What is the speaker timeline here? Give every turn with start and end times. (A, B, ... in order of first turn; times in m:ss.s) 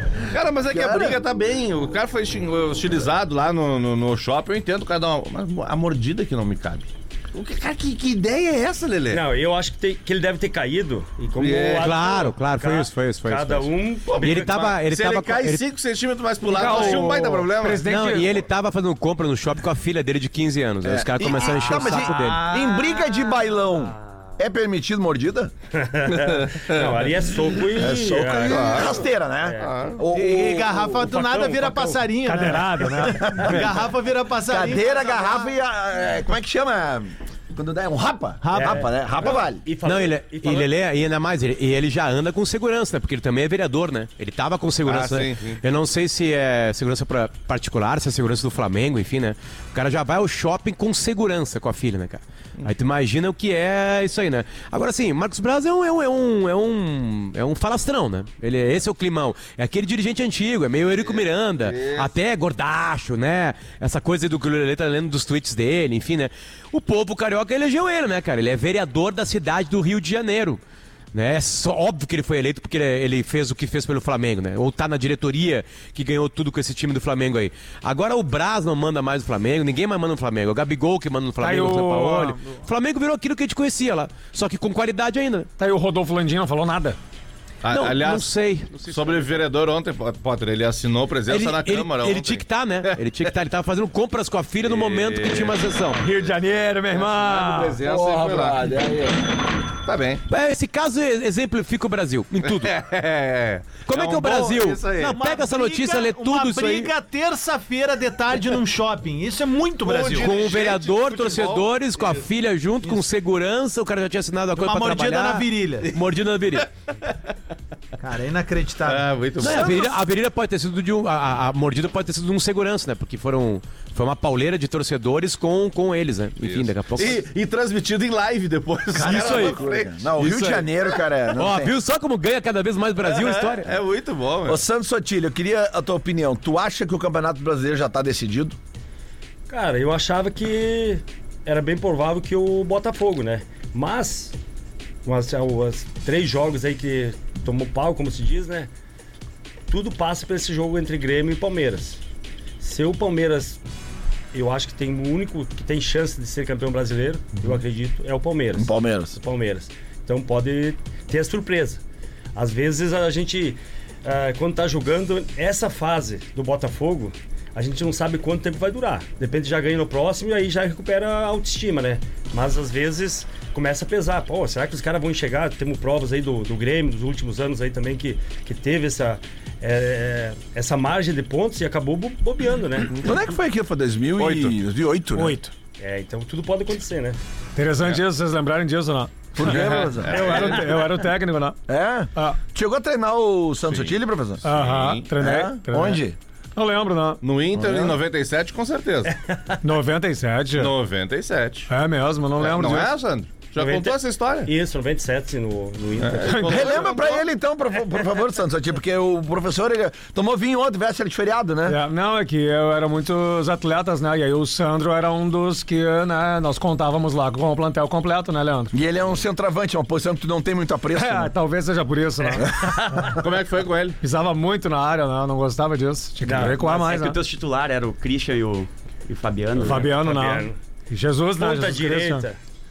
0:00.3-0:09.2 A
0:00.7-0:01.2 B
0:09.1-0:14.7 C
0:11.4-0:11.9 A
0:11.8-0:15.6 D
0:14.1-0:17.9 A
0:16.4-0:18.3 E
0:17.8-0:22.5 D
0:20.8-0:25.5 B
0:22.5-0:22.9 E
0:25.8-0:30.0 C
0:26.1-0:27.0 A
0:27.8-0:31.2 B
0:27.9-0:28.9 A
0:29.6-0:30.0 A
0:30.1-0:35.5 F
0:31.0-0:32.0 A
0:32.2-0:33.6 E
0:33.0-0:33.7 B
0:34.5-0:39.6 B
0:38.4-0:38.9 F
0:38.5-0:40.7 C
0:39.8-1:10.6 D
0:44.8-0:45.6 A
1:00.9-1:02.1 A
1:11.1-1:25.5 D
1:21.4-1:22.4 E
1:25.6-1:27.0 E
1:27.6-1:33.3 A
1:27.7-1:29.2 D
1:31.3-1:36.0 D
1:34.6-1:36.3 A
1:36.0-1:37.8 E
1:36.9-1:38.7 A
1:37.8-1:39.2 B
1:39.9-1:40.2 A
1:40.3-1:42.7 D
1:42.4-1:45.2 A
1:43.9-1:46.9 D
1:45.1-1:50.3 F
1:49.8-1:52.3 A
1:50.2-1:56.6 D
1:54.6-1:55.9 F
1:58.0-1:59.6 F
1:58.8-2:00.0 A
1:59.4-2:07.2 D
2:06.4-2:11.0 A
2:09.0-2:11.8 B
2:09.0-2:09.6 D
2:11.4-2:13.7 D
2:13.0-2:14.6 A
2:14.5-2:18.6 B
2:19.5-2:24.4 C
2:25.0-2:28.7 C
2:29.7-2:32.0 C
2:32.6-2:33.6 C
2:34.3-2:41.8 C
2:38.6-2:39.2 B
2:42.4-3:03.0 C
3:03.0-3:05.4 B
3:04.2-3:04.5 A
3:05.2-3:05.5 E
3:05.8-3:07.2 C
3:07.6-3:09.1 E
3:09.4-3:10.5 B
3:09.4-3:10.6 A
3:10.1-3:11.6 E
3:11.7-3:14.5 B
3:13.7-3:15.1 A
3:14.4-3:16.0 E
3:15.2-3:16.2 B
3:16.6-3:17.2 E
3:17.2-3:19.1 A
3:17.5-3:18.0 B
3:19.1-3:19.6 C
3:19.6-3:20.7 E
3:20.6-3:21.7 A
3:21.7-3:22.9 E
3:22.4-3:24.5 A
3:23.6-3:26.8 C
3:26.0-3:27.3 A
3:26.3-3:26.6 E
3:26.4-3:31.8 B
3:31.7-3:38.8 E
3:38.7-3:41.3 B
3:40.9-3:42.5 E
3:42.5-3:43.1 C
3:43.1-3:44.0 A
3:44.0-3:47.2 E
3:46.2-3:46.6 C
3:46.4-3:49.9 G
3:49.6-3:52.2 E
3:49.8-3:50.6 C
3:51.4-3:52.4 C